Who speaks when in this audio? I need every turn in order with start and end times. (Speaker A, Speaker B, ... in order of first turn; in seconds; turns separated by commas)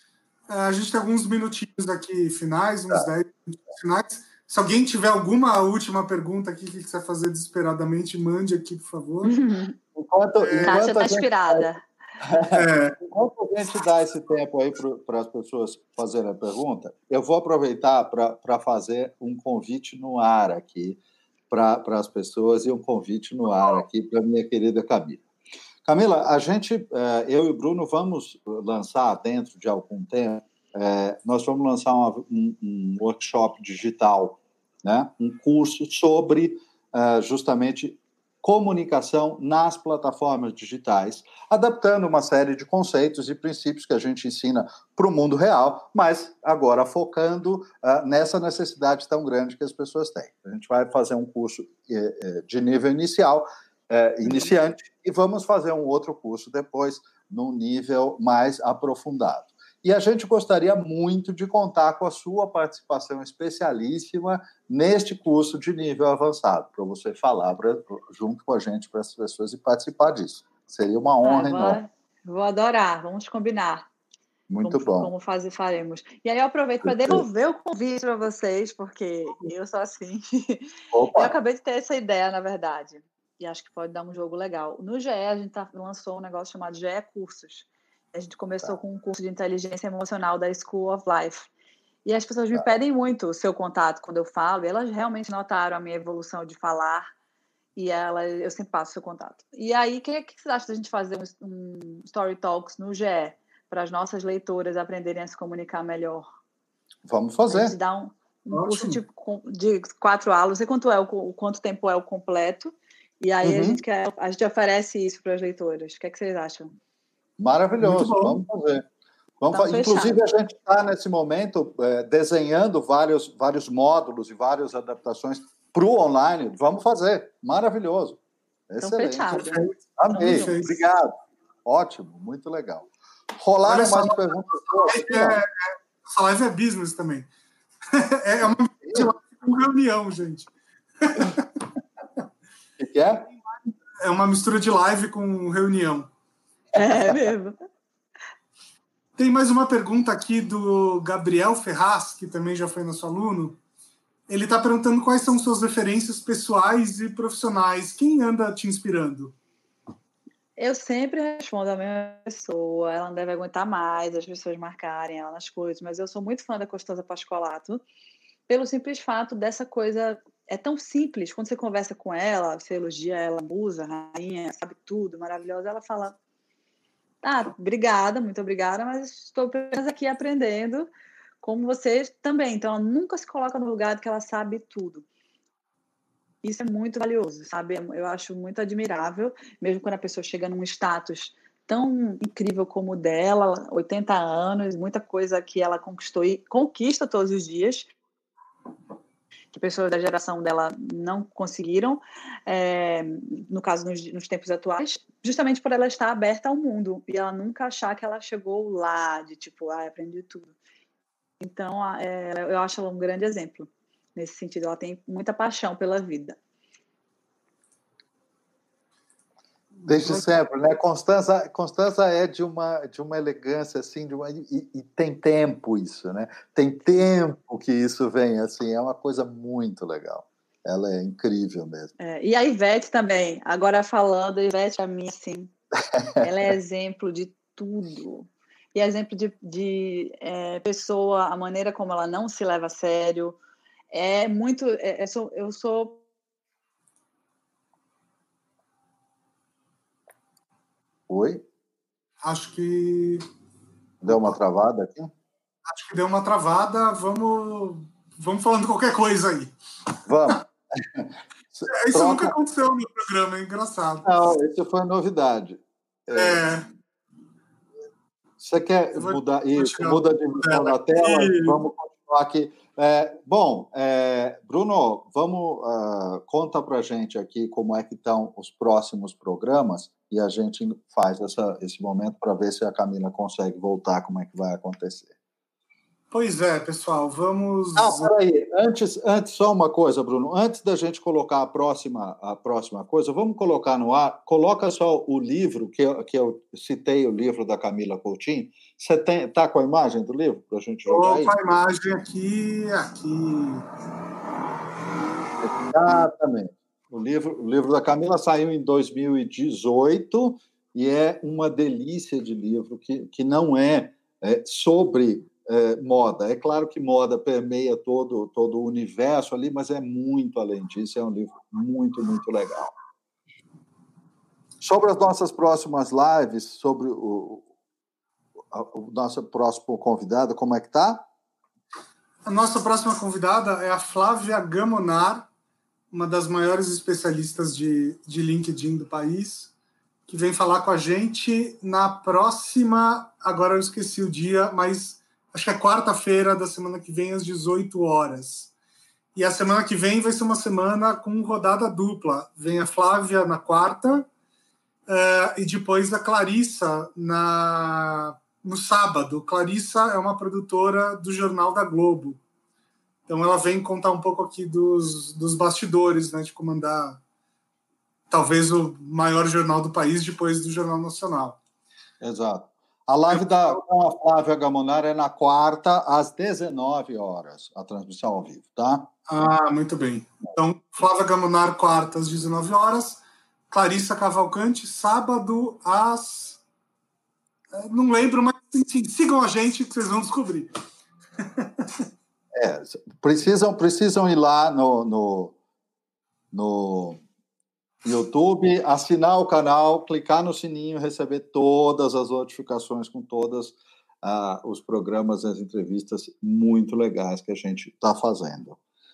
Speaker A: 0.5-9.3, Speaker B: 9.2-9.8, Speaker C: 9.9-11.7, Speaker A: 10.4-10.8, Speaker B: 10.6-11.8, Speaker C: 12.2-25.2, Speaker A: 12.5-13.0, Speaker C: 25.8-71.8, Speaker B: 71.2-73.9, Speaker C: 74.5-75.1, Speaker B: 74.6-91.5, Speaker C: 76.8-77.2, Speaker C: 80.9-81.3, Speaker B: 92.0-97.1, Speaker B: 97.8-106.2, Speaker C: 107.0-107.8, Speaker B: 107.5-116.7, Speaker A: 108.5-109.0, Speaker C: 113.4-113.8, Speaker C: 117.4-118.8, Speaker A: 117.8-118.4, Speaker C: 119.4-129.4, Speaker B: 119.5-120.2, Speaker B: 128.8-130.5, Speaker A: 129.3-130.7, Speaker C: 129.9-131.1, Speaker C: 131.6-135.4, Speaker A: 133.6-137.3, Speaker A: 137.9-140.5, Speaker A: 141.0-141.4, Speaker C: 142.8-143.3, Speaker A: 144.0-146.1, Speaker B: 146.7-147.6, Speaker C: 146.8-147.2, Speaker A: 149.2-153.6, Speaker A: 154.3-159.3, Speaker B: 160.6-167.8, Speaker B: 168.5-176.2, Speaker B: 177.2-180.9, Speaker B: 181.4-185.0, Speaker B: 186.4-197.9, Speaker B: 199.5-210.5, Speaker B: 211.4-216.4, Speaker A: 219.8-220.2, Speaker C: 219.8-231.9, Speaker B: 232.0-235.5, Speaker B: 236.2-243.4, Speaker B: 243.9-246.0, Speaker C: 251.1-251.4, Speaker A: 252.2-253.2, Speaker C: 254.0-255.1, Speaker A: 255.7-259.5, Speaker C: 260.1-262.3, Speaker A: 261.7-264.1, Speaker C: 264.0-266.5, Speaker A: 266.1-266.6, Speaker C: 268.4-285.1, Speaker A: 268.9-271.6, Speaker A: 286.1-288.1, Speaker C: 287.8-301.3, Speaker A: 300.9-303.6, Speaker C: 305.4-322.7, Speaker C: 324.6-327.4, Speaker C: 328.5-331.1, Speaker A: 332.2-335.3, Speaker A: 335.9-339.5, Speaker A: 340.1-348.5, Speaker A: 349.1-354.1, Speaker A: 354.9-362.2, Speaker A: 363.1-367.0, Speaker A: 368.1-371.4, Speaker C: 372.0-378.9, Speaker A: 373.1-373.6, Speaker A: 379.1-386.4, Speaker A: 387.5-390.5, Speaker A: 391.2-391.8, Speaker C: 392.3-395.3, Speaker C: 396.3-397.0, Speaker C: 397.8-408.6